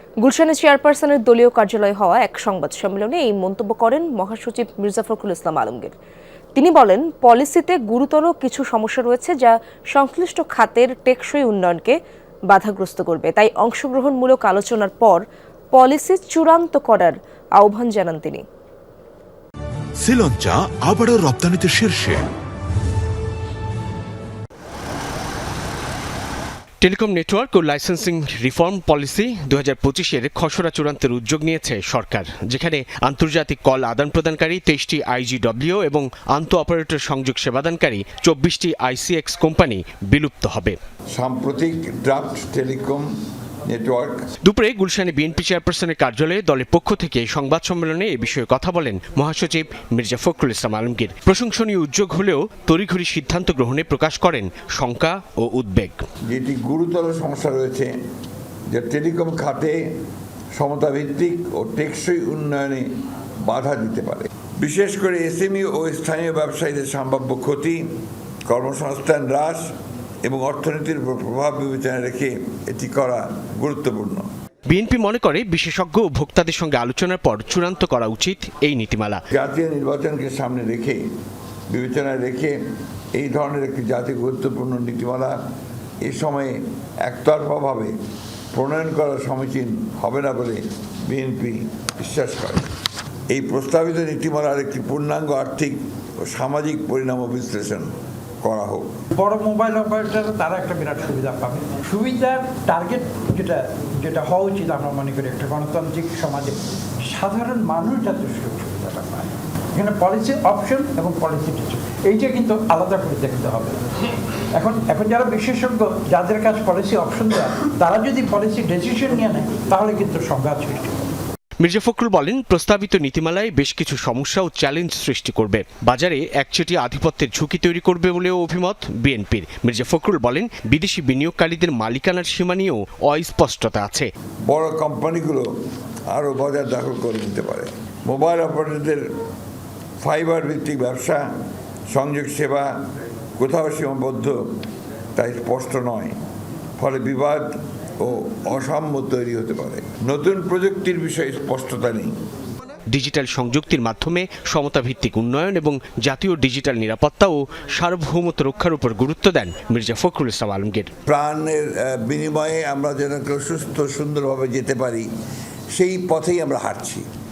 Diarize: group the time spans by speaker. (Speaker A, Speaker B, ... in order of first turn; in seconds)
Speaker A: 0.2-5.9, 6.5-11.9, 12.5-15.2, 15.7-18.4
Speaker B: 20.0-22.2
Speaker C: 26.8-40.8, 44.4-56.0, 74.7-79.2, 121.6-134.1, 152.9-160.9
Speaker D: 41.1-43.1, 43.7-44.2, 56.3-57.9, 58.7-59.9, 60.5-62.9, 63.4-67.8, 68.5-69.7, 70.2-74.2, 79.3-81.0, 81.7-82.6, 83.1-85.3, 86.0-87.9, 88.5-92.7, 93.3-97.9, 98.4-98.9, 134.5-135.5, 136.1-139.0, 140.0-141.3, 141.9-142.8, 143.4-144.4, 145.2-146.2, 146.8-152.1, 161.1-165.1, 165.7-167.1
Speaker E: 99.1-113.8, 114.5-121.0